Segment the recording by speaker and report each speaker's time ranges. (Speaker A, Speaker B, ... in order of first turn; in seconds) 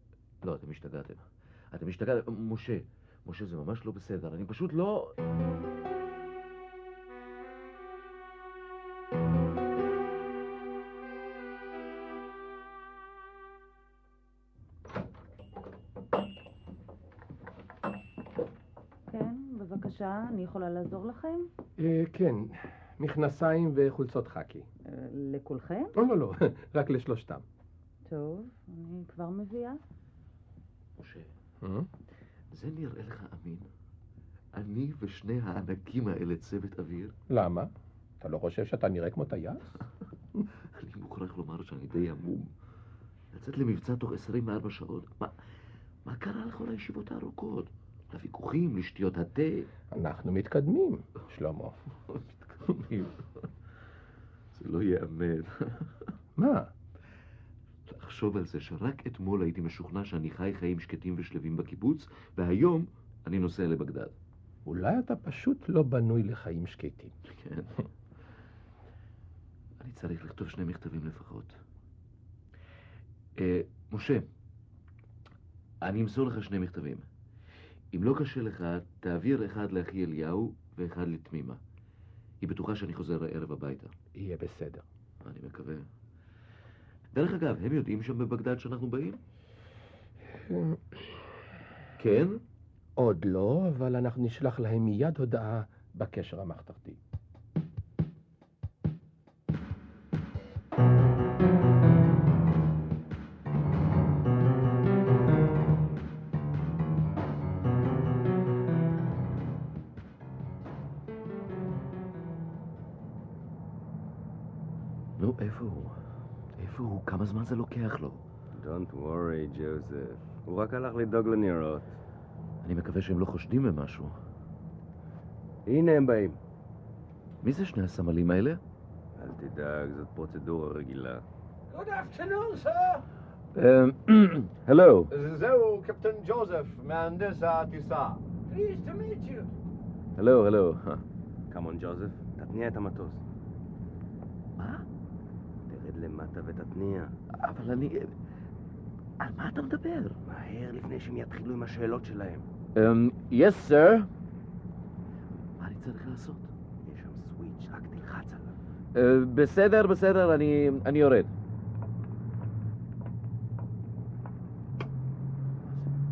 Speaker A: 0.4-5.2, 31.0-31.3, 32.5-33.7, 34.5-37.1, 40.7-42.5, 43.3-45.3, 46.0-49.7, 52.1-53.1, 54.5-56.1, 57.9-64.1, 67.3-67.7, 69.8-71.6, 73.4-74.3, 75.8-77.0, 77.9-81.6, 82.4-83.9, 85.2-85.9, 87.1-89.2, 92.0-92.4, 115.2-116.0, 116.6-118.2, 122.6-124.1, 127.4-128.6, 133.6-135.1, 140.2-141.0, 144.6-144.8, 147.4-148.1, 149.2-150.2, 152.8-154.1, 155.5-156.5, 158.9-161.3, 165.6-165.9
Speaker B: 19.1-21.5, 24.8-25.9, 28.1-29.8
Speaker C: 21.8-24.7, 25.9-27.4, 31.6-31.9, 37.3-39.8, 49.9-51.8, 56.4-56.7, 64.7-67.1, 84.1-84.8, 90.5-91.0, 93.0-97.0
Speaker D: 118.5-122.0, 125.7-126.4, 129.2-131.2, 141.5-143.2, 145.7-147.1, 150.3-152.4, 156.8-158.5
Speaker E: 131.7-133.0, 135.1-139.5